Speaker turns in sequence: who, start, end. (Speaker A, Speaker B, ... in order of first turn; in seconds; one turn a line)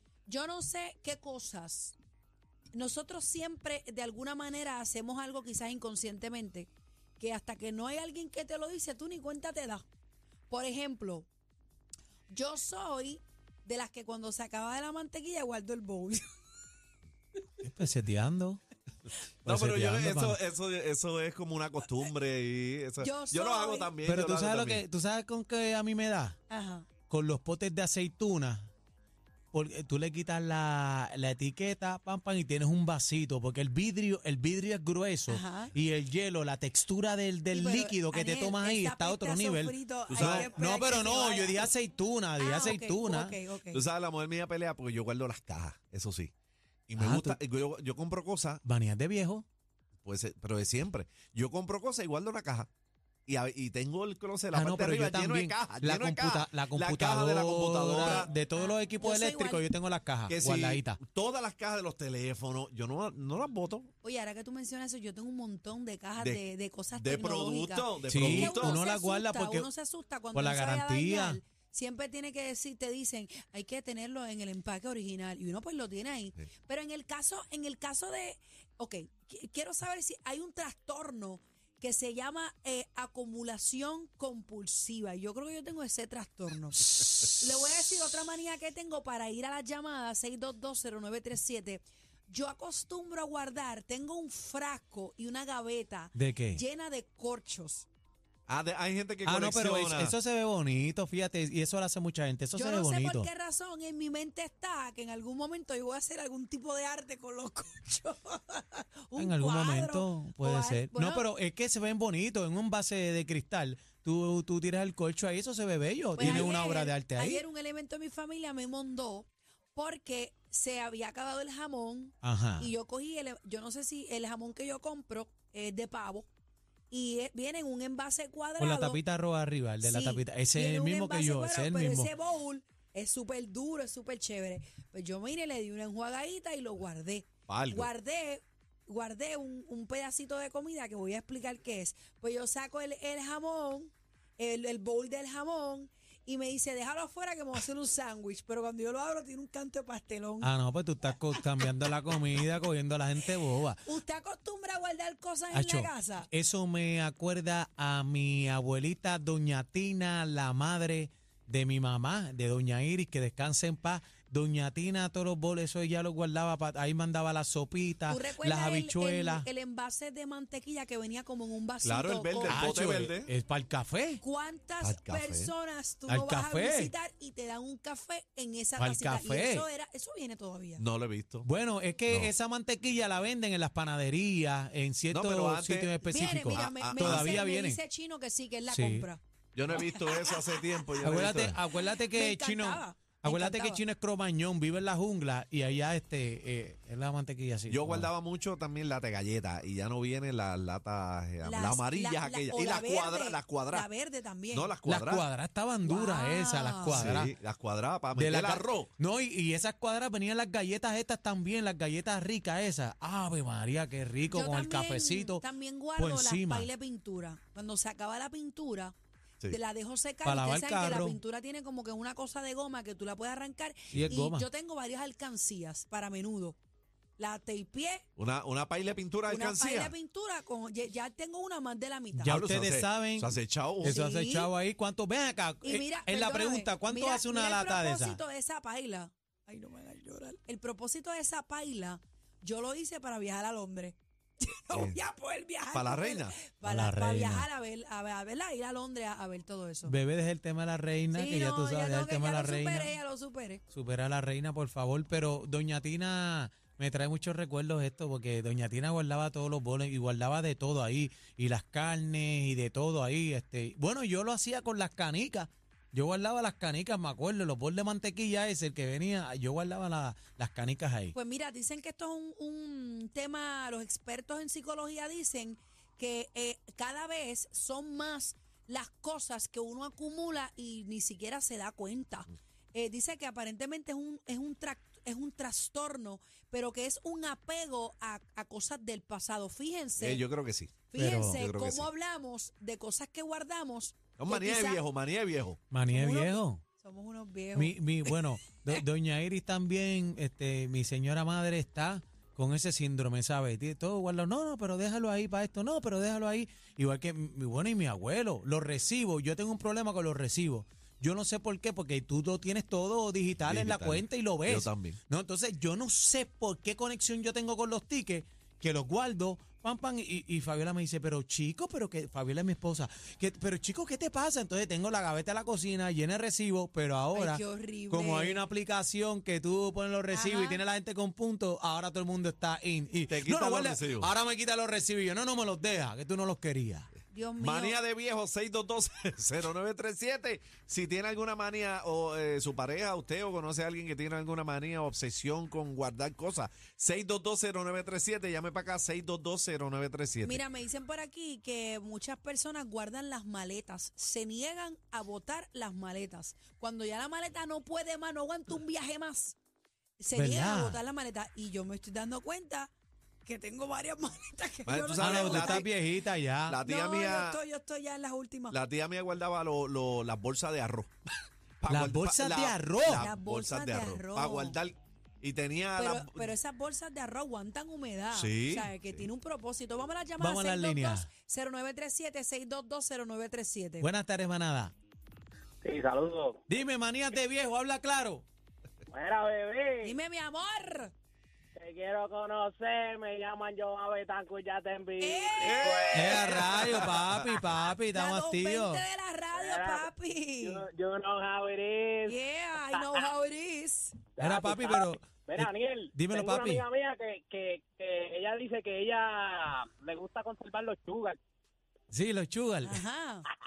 Speaker A: 0.3-1.9
Speaker A: 2.7-9.8
Speaker A: 10.5-11.3
Speaker A: 12.3-16.3
Speaker B: 17.6-18.6
Speaker B: 19.4-20.4
Speaker C: 19.4-24.8
Speaker A: 23.0-23.9
Speaker B: 24.0-26.4
Speaker A: 26.5-26.9
Speaker B: 27.0-28.7
Speaker B: 29.5-43.4
Speaker A: 35.3-35.7
Speaker A: 37.5-41.7
Speaker C: 40.1-40.5
Speaker A: 42.4-43.8
Speaker C: 43.7-46.3
Speaker C: 46.9-48.6
Speaker B: 47.0-47.4
Speaker B: 48.6-49.5
Speaker C: 50.0-52.7
Speaker C: 53.3-58.3
Speaker B: 54.5-61.0
Speaker A: 58.0-59.6
Speaker C: 60.3-63.9
Speaker A: 64.0-97.8
Speaker C: 66.2-68.8
Speaker B: 68.0-69.7
Speaker B: 70.3-71.4
Speaker B: 96.2-96.6
Speaker C: 98.5-100.2
Speaker B: 99.2-103.3
Speaker A: 102.5-111.3
Speaker B: 109.2-117.4
Speaker A: 116.2-126.3
Speaker B: 122.2-122.7
Speaker A: 126.9-129.0
Speaker B: 128.6-132.1
Speaker A: 129.8-150.5
Speaker C: 137.5-137.9
Speaker B: 150.4-153.8
Speaker A: 153.3-156.3
Speaker B: 155.5-169.5
Speaker A: 168.1-172.8
Speaker C: 171.8-173.3
Speaker B: 172.5-174.2
Speaker A: 174.2-180.8
Speaker C: 174.8-175.5
Speaker B: 176.1-176.9
Speaker B: 178.8-179.7
Speaker C: 180.8-181.5
Speaker B: 181.4-187.8
Speaker C: 185.1-185.9
Speaker A: 186.1-189.2
Speaker C: 186.5-187.4
Speaker B: 188.7-189.1
Speaker C: 189.5-191.6
Speaker A: 189.8-190.4
Speaker B: 191.0-198.1
Speaker A: 191.7-193.8
Speaker C: 197.7-203.9
Speaker A: 201.4-204.7
Speaker C: 204.5-205.2
Speaker B: 204.8-207.3
Speaker A: 205.8-207.1
Speaker C: 206.9-208.9
Speaker B: 208.1-215.4
Speaker A: 214.3-218.9
Speaker B: 215.9-216.7
Speaker A: 219.5-226.6
Speaker B: 220.2-221.2
Speaker B: 223.9-224.5
Speaker A: 227.2-228.0
Speaker C: 228.2-229.9
Speaker A: 229.3-232.3
Speaker B: 232.2-233.3
Speaker C: 232.2-233.9
Speaker A: 233.8-234.5
Speaker B: 233.8-238.2
Speaker A: 235.6-249.9
Speaker C: 244.7-245.0
Speaker C: 245.7-246.4
Speaker B: 246.6-247.4
Speaker B: 249.8-252.9
Speaker A: 251.1-253.6
Speaker B: 253.7-271.1
Speaker A: 271.1-290.2
Speaker C: 290.0-290.8
Speaker A: 290.9-294.8
Speaker B: 290.9-291.4
Speaker C: 291.3-291.9
Speaker C: 294.2-295.6
Speaker B: 295.7-296.6
Speaker A: 295.9-298.2
Speaker B: 297.6-336.9
Speaker C: 313.5-315.0
Speaker A: 327.1-328.4
Speaker A: 330.1-330.6
Speaker C: 333.1-334.1
Speaker A: 337.1-337.8
Speaker C: 337.4-350.4
Speaker A: 350.2-359.4
Speaker A: 360.0-362.7
Speaker B: 360.1-360.8
Speaker A: 363.2-365.6
Speaker C: 364.7-365.7
Speaker B: 364.9-366.6
Speaker C: 366.5-367.4
Speaker A: 366.6-368.6
Speaker C: 368.5-370.9
Speaker C: 371.6-376.3
Speaker B: 371.7-373.1
Speaker A: 372.9-374.6
Speaker A: 375.8-383.9
Speaker C: 378.1-379.0
Speaker B: 380.2-381.1
Speaker B: 383.8-384.7
Speaker D: 385.6-386.4
Speaker B: 386.5-388.2
Speaker D: 388.9-389.9
Speaker A: 389.8-390.9
Speaker D: 391.6-397.0
Speaker A: 395.0-395.9
Speaker C: 395.4-397.4
Speaker B: 395.9-398.8
Speaker A: 397.9-400.6
Speaker D: 399.3-399.9
Speaker D: 400.4-403.1
Speaker A: 402.0-404.1
Speaker D: 404.1-411.2
Speaker B: 404.2-406.6
Speaker B: 411.9-412.8
Speaker A: 412.6-413.3